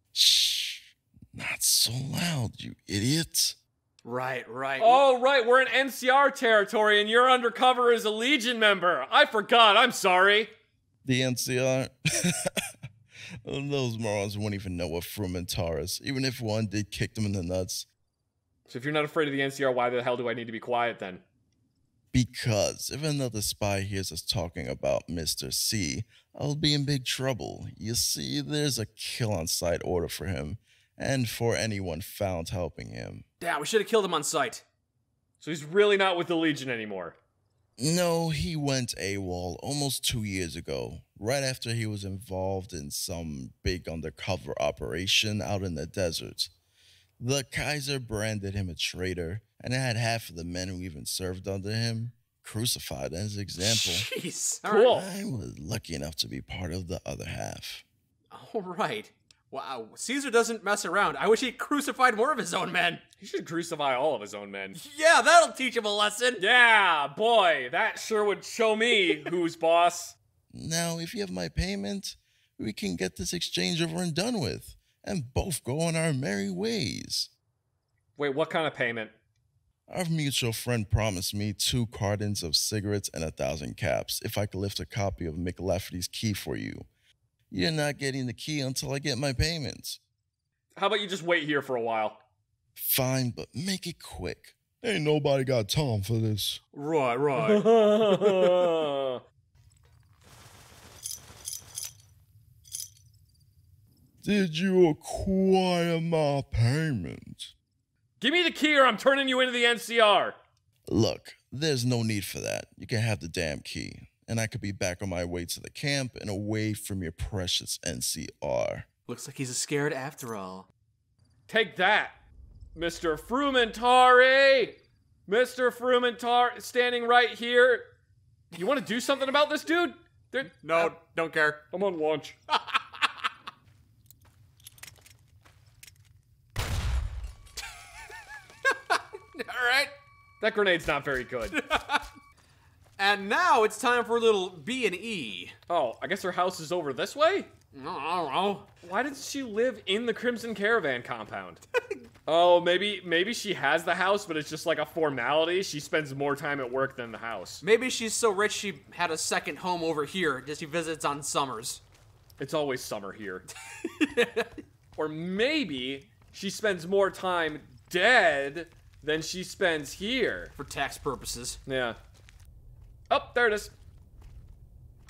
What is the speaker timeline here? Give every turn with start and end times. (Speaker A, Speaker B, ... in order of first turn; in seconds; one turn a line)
Speaker A: 0.1-3.6
Speaker B: 4.0-5.0
Speaker C: 4.8-10.5
Speaker A: 11.1-12.7
Speaker A: 13.4-17.9
Speaker C: 18.7-21.2
Speaker A: 22.1-33.2
Speaker B: 33.4-34.6
Speaker C: 35.4-37.2
Speaker A: 37.8-46.5
Speaker A: 47.2-54.1
Speaker B: 53.7-55.0
Speaker C: 54.6-55.1
Speaker A: 54.9-57.8
Speaker B: 58.3-63.0
Speaker C: 63.2-64.8
Speaker B: 64.8-66.4
Speaker C: 66.4-70.2
Speaker A: 70.5-77.3
Speaker C: 78.2-79.1
Speaker A: 79.9-86.9
Speaker A: 87.5-90.0
Speaker C: 90.8-92.2
Speaker A: 92.8-96.6
Speaker B: 96.7-98.8
Speaker C: 97.4-99.2
Speaker A: 104.2-107.5
Speaker C: 108.2-110.4
Speaker A: 110.9-118.9
Speaker B: 119.1-120.7
Speaker C: 121.5-122.2
Speaker C: 122.8-127.9
Speaker C: 128.5-130.9
Speaker B: 130.5-131.7
Speaker C: 131.7-132.4
Speaker B: 132.5-133.1
Speaker B: 138.7-139.9
Speaker C: 140.4-141.6
Speaker B: 141.5-142.1
Speaker B: 143.0-145.6
Speaker C: 145.7-147.5
Speaker B: 147.7-148.7
Speaker C: 148.8-151.6
Speaker C: 152.3-157.6
Speaker B: 157.6-161.8
Speaker C: 162.4-163.5
Speaker B: 163.7-164.5
Speaker C: 165.0-170.5
Speaker B: 170.6-171.6
Speaker C: 171.7-172.0
Speaker C: 173.1-173.7